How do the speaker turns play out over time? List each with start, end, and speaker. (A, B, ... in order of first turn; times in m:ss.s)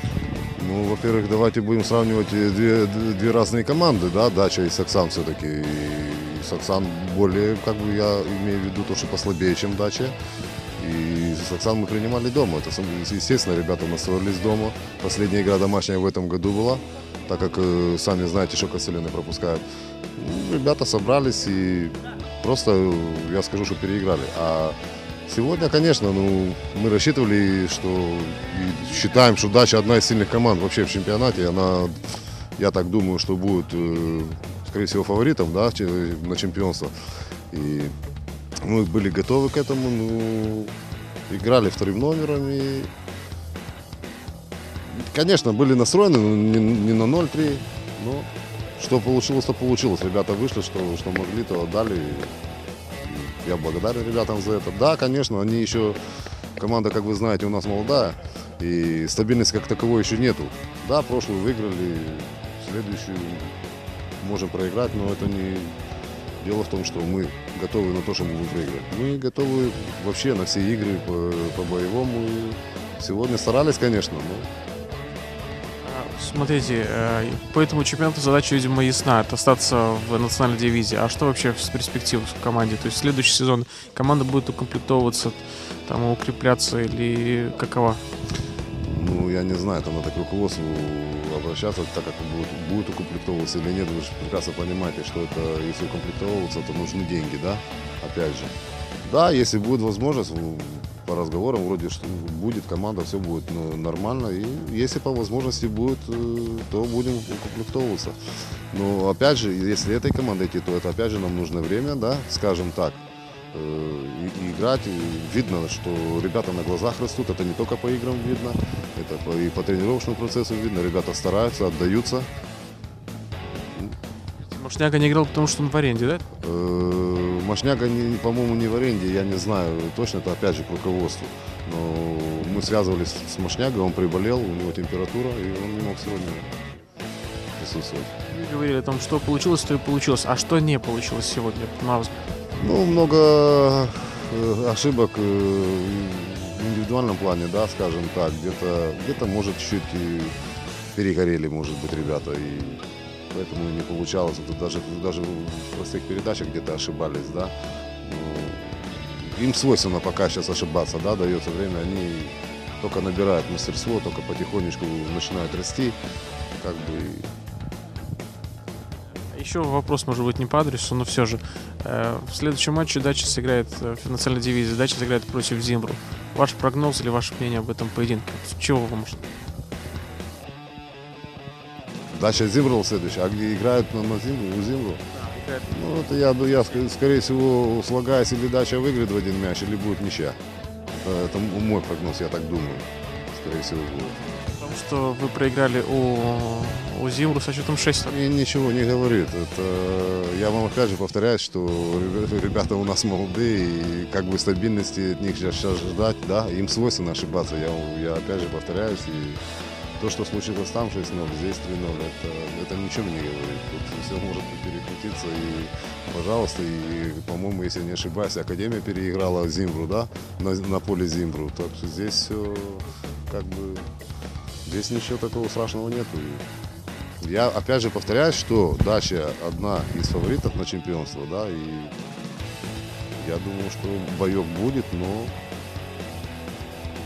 0:00.6-0:10.2 A
0:10.8-0:19.6 A
0:20.2-0:36.9 A
0:37.5-0:37.9 A
0:38.6-0:40.7 A
0:41.3-0:42.9 A
0:44.9-0:52.3 A
0:53.0-0:56.0 A
0:56.6-1:03.6 A
1:04.2-1:05.8 A
1:06.4-1:14.5 A
1:15.8-1:28.0 B
1:28.8-1:38.5 A
1:39.1-1:48.2 A
1:48.7-1:53.0 A
1:53.5-2:02.3 A
2:03.7-2:04.0 A
2:04.5-2:06.2 B
2:06.4-2:16.5 A
2:17.6-2:18.1 A
2:18.3-2:22.3 B
2:22.6-2:30.3 A
2:31.0-2:46.0 A
2:46.6-2:47.3 A
2:49.3-2:59.2 B
3:02.1-3:05.0 A
3:05.3-3:05.7 B
3:05.6-3:14.2 A
3:14.4-3:18.2 B
3:18.1-3:29.4 A
3:30.0-3:43.9 A
3:44.7-3:46.4 A
3:47.2-3:52.0 A
3:53.1-3:55.4 A